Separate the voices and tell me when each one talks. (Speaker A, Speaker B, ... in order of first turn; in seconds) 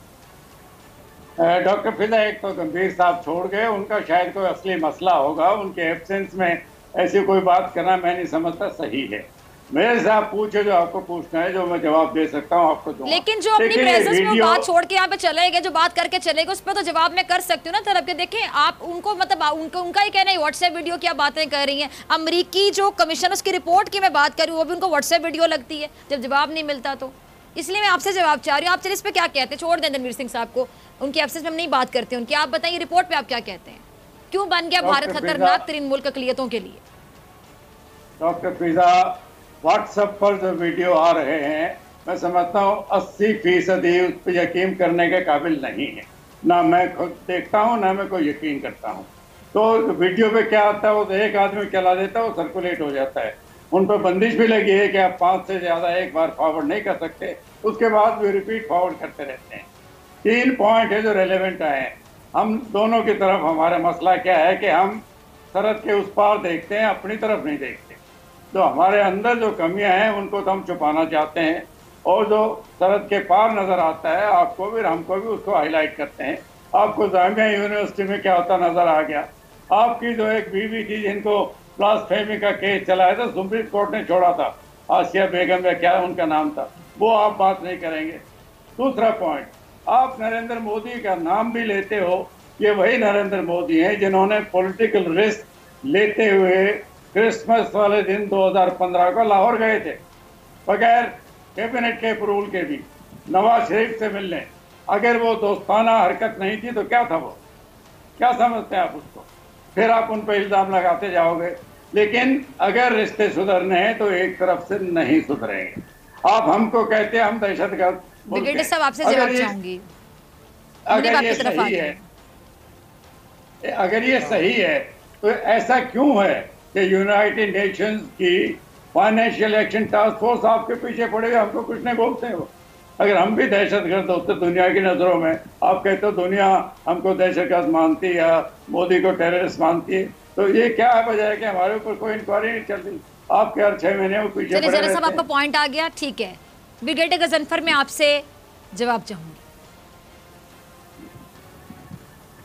Speaker A: 1.4-14.7, 34.8-35.6, 38.2-59.7, 60.2-65.0, 65.5-68.0, 68.5-88.2, 88.8-100.0, 100.7-107.4, 108.2-119.5, 120.9-122.0, 123.7-145.2
Speaker B: 13.1-36.8, 118.3-119.8, 120.9-122.0, 144.5-149.4